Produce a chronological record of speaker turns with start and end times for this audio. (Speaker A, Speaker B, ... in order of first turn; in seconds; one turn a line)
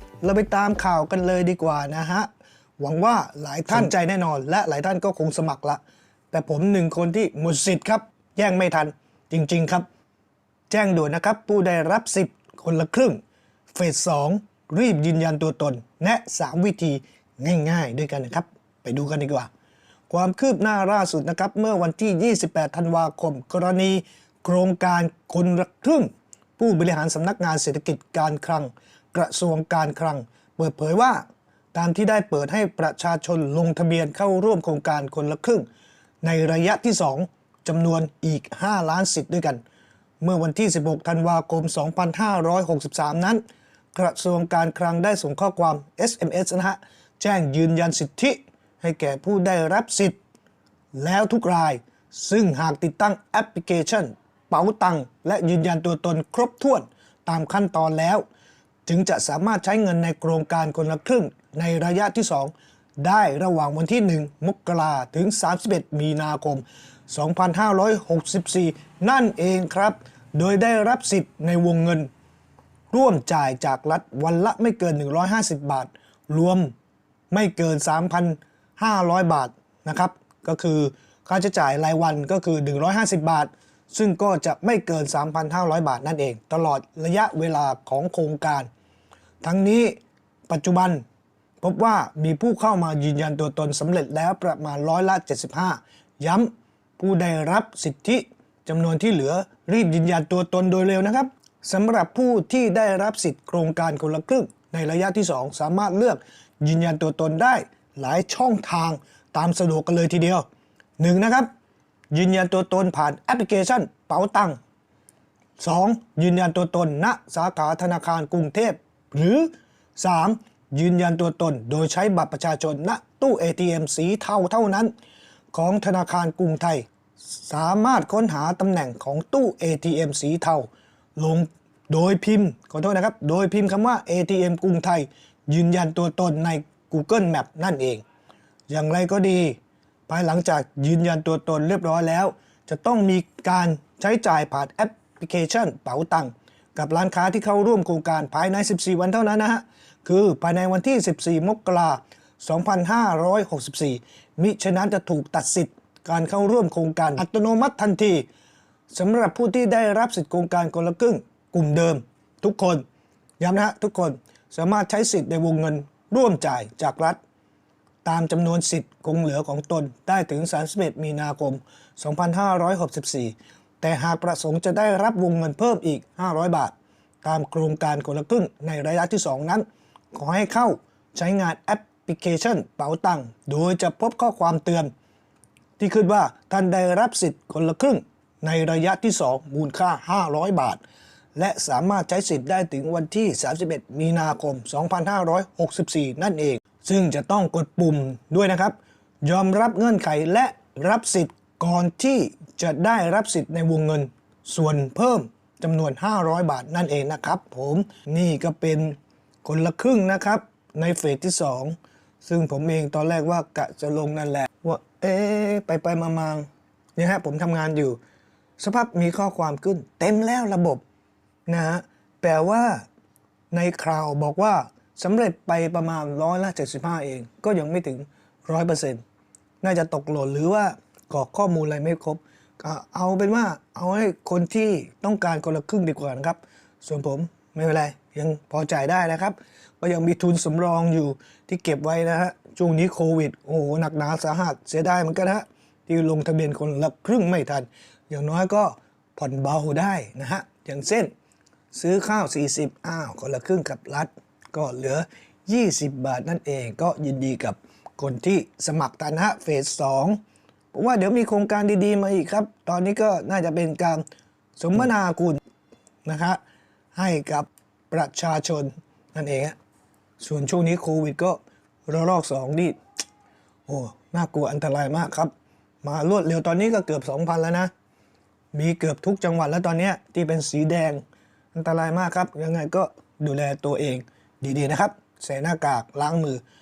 Speaker A: 0.2-5.8
Speaker A: 6.3-9.8
Speaker A: 10.7-13.2
Speaker A: 13.7-19.5
Speaker A: 20.1-35.7
Speaker A: 36.2-39.6
Speaker A: 40.2-43.4
Speaker A: 43.9-50.2
Speaker A: 50.9-58.2
Speaker A: 58.9-72.1
Speaker A: 72.9-76.7
Speaker A: 77.3-88.7
Speaker A: 89.4-90.0
Speaker A: 90.5-91.0
Speaker A: 91.6-110.4
Speaker A: 111.0-111.5
Speaker A: 112.1-114.6
Speaker A: 115.6-124.9
Speaker A: 125.5-138.0
Speaker A: 138.7-158.3
Speaker A: 158.9-162.8
Speaker A: 163.4-167.2
Speaker A: 168.0-184.9
Speaker A: 185.8-190.8
Speaker A: 191.3-218.0
Speaker A: 218.6-220.8
Speaker A: 221.5-222.8
Speaker A: 223.5-229.0
Speaker A: 229.6-251.1
Speaker A: 251.7-260.2
Speaker A: 260.7-264.0
Speaker A: 264.6-265.4
Speaker A: 266.0-266.4
Speaker A: 266.9-269.6
Speaker A: 270.2-272.8
Speaker A: 273.7-275.3
Speaker A: 275.8-277.7
Speaker A: 278.5-281.0
Speaker A: 281.5-286.4